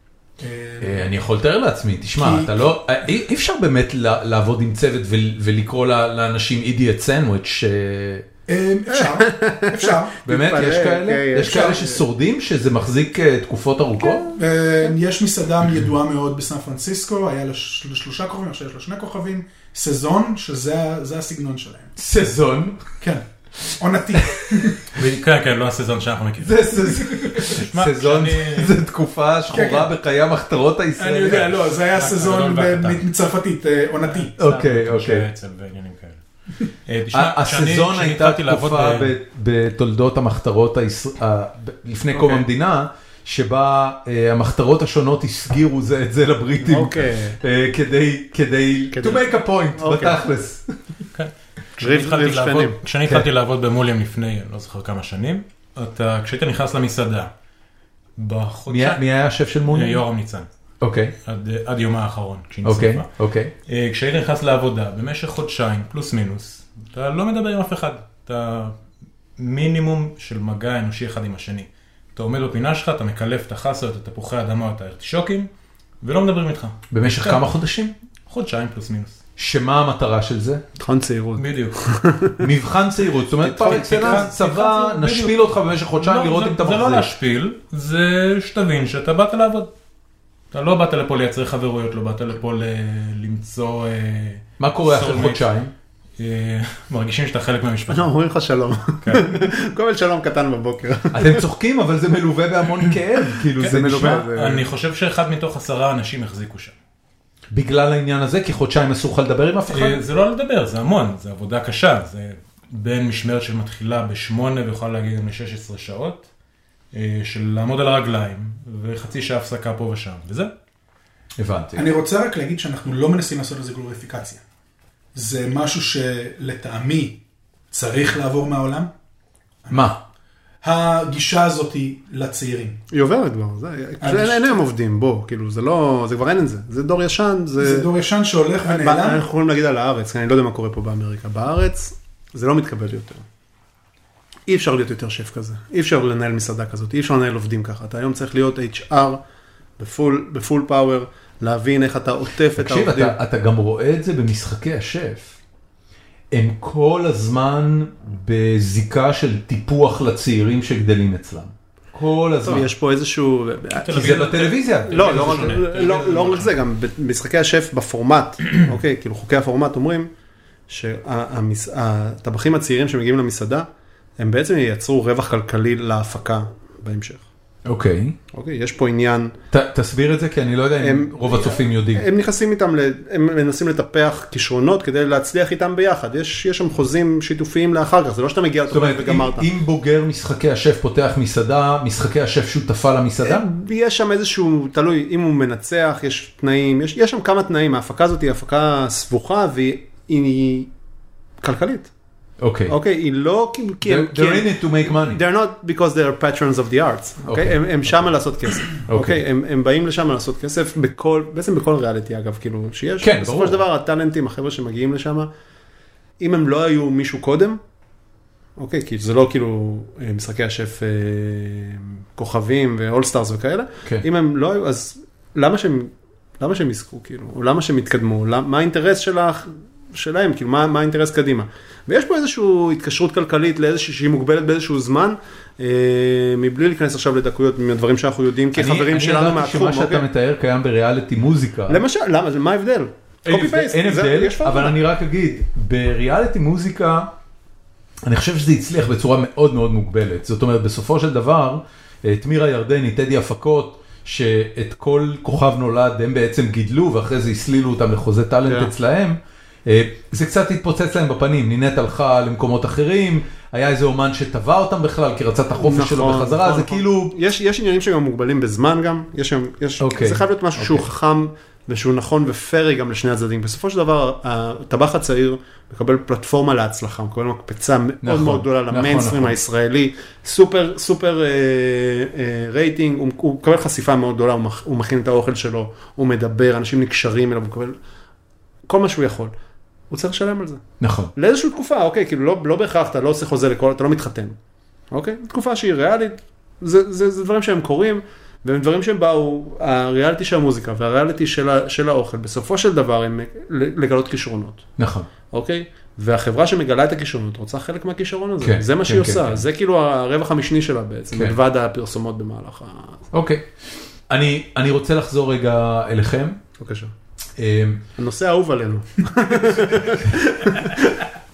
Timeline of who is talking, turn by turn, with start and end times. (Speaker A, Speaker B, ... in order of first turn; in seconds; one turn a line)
Speaker A: 0.4-1.1
Speaker B: 0.8-8.2
Speaker A: 2.2-2.6
Speaker A: 8.5-10.2
Speaker C: 8.9-12.0
Speaker B: 10.2-14.3
Speaker A: 11.4-11.8
Speaker A: 14.3-21.9
Speaker B: 22.0-22.8
Speaker A: 23.0-23.2
Speaker A: 23.8-24.8
Speaker B: 24.2-24.7
Speaker D: 24.8-28.7
Speaker B: 26.4-31.6
Speaker A: 29.5-29.9
Speaker A: 31.0-34.3
Speaker D: 31.5-33.0
Speaker D: 34.0-39.1
Speaker B: 34.4-35.2
Speaker B: 37.1-50.7
Speaker C: 42.1-42.4
Speaker C: 46.6-47.4
Speaker C: 48.9-50.2
Speaker D: 51.1-57.3
Speaker C: 51.8-52.8
Speaker D: 58.2-59.0
Speaker B: 58.7-60.0
Speaker D: 59.7-60.5
Speaker B: 60.8-61.1
Speaker D: 61.2-63.1
Speaker B: 62.6-63.5
Speaker D: 63.7-68.8
Speaker D: 69.4-75.5
Speaker D: 76.0-77.4
Speaker B: 76.9-77.9
Speaker D: 78.3-79.2
Speaker B: 79.4-80.6
Speaker C: 80.8-82.5
Speaker D: 81.4-81.8
Speaker B: 82.4-87.1
Speaker C: 83.4-84.3
Speaker D: 83.4-89.7
Speaker D: 90.5-95.4
Speaker B: 94.6-95.7
Speaker D: 96.2-98.1
Speaker C: 97.9-101.4
Speaker D: 99.0-99.4
Speaker B: 101.1-104.3
Speaker C: 103.6-104.7
Speaker D: 103.6-106.7
Speaker B: 107.5-110.0
Speaker D: 109.7-116.3
Speaker D: 116.9-120.5
Speaker B: 121.4-121.8
Speaker A: 121.8-124.4
Speaker A: 125.1-127.2
Speaker A: 127.7-128.9
Speaker B: 129.7-130.0
Speaker A: 130.6-132.8
Speaker C: 132.9-137.9
Speaker A: 134.0-134.6
Speaker A: 137.6-139.2
Speaker C: 138.6-143.2
Speaker C: 144.5-149.2
Speaker C: 149.8-153.2
Speaker B: 152.6-155.4
Speaker B: 156.3-162.7
Speaker C: 162.4-170.1
Speaker D: 163.8-166.5
Speaker B: 163.9-165.6
Speaker C: 170.7-177.2
Speaker B: 177.7-178.2
Speaker C: 178.3-179.3
Speaker B: 179.5-182.1
Speaker C: 180.8-189.5
Speaker B: 188.7-193.4
Speaker C: 193.2-200.7
Speaker C: 201.4-201.9
Speaker B: 202.4-202.7
Speaker C: 202.7-215.3
Speaker B: 203.8-205.2
Speaker B: 207.2-208.1
Speaker B: 208.9-209.2
Speaker B: 213.0-213.6
Speaker C: 216.2-217.6
Speaker C: 218.6-240.1
Speaker B: 238.5-241.8
Speaker C: 241.7-244.8
Speaker B: 243.2-247.1
Speaker B: 248.1-267.1
Speaker C: 258.4-258.7
Speaker C: 265.6-287.7
Speaker B: 269.8-270.9
Speaker B: 278.0-279.4
Speaker C: 288.7-289.3
Speaker C: 289.9-290.6
Speaker B: 290.8-291.1
Speaker C: 291.1-294.4
Speaker C: 294.9-304.6
Speaker B: 304.8-305.1
Speaker C: 305.3-313.1
Speaker B: 308.4-309.4
Speaker B: 313.1-313.4
Speaker B: 314.1-316.4
Speaker C: 316.6-316.9
Speaker B: 317.4-317.9
Speaker C: 318.0-320.9